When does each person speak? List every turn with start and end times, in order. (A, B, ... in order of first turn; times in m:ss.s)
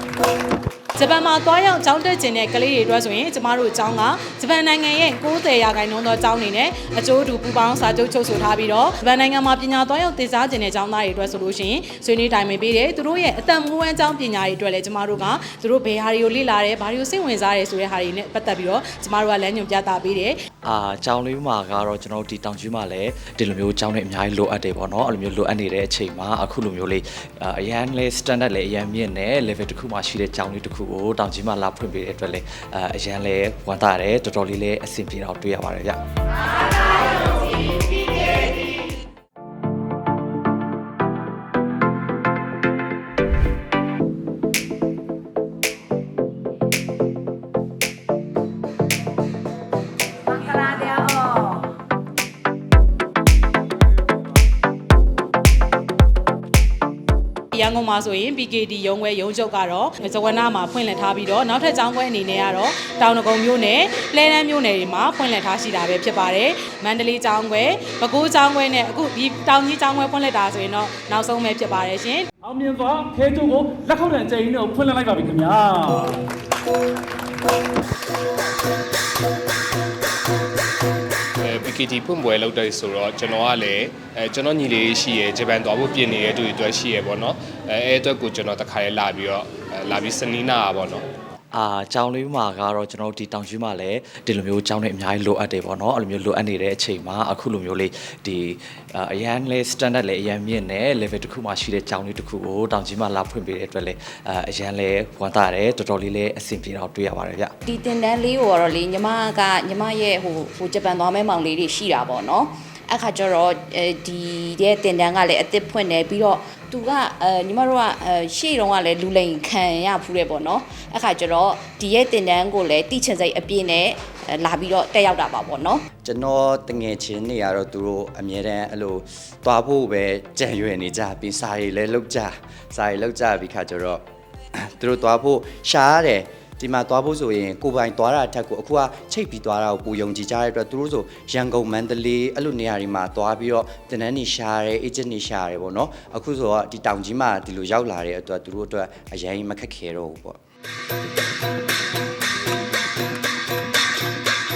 0:01.0-0:20.4 A
0:20.6-0:36.0 B
0:57.5-1:12.3 A
1:12.4-1:16.2 C
1:21.4-1:31.0 D
1:31.5-1:47.5 B
1:47.6-2:05.8 E
2:06.0-2:14.0 F
2:14.6-2:30.4 F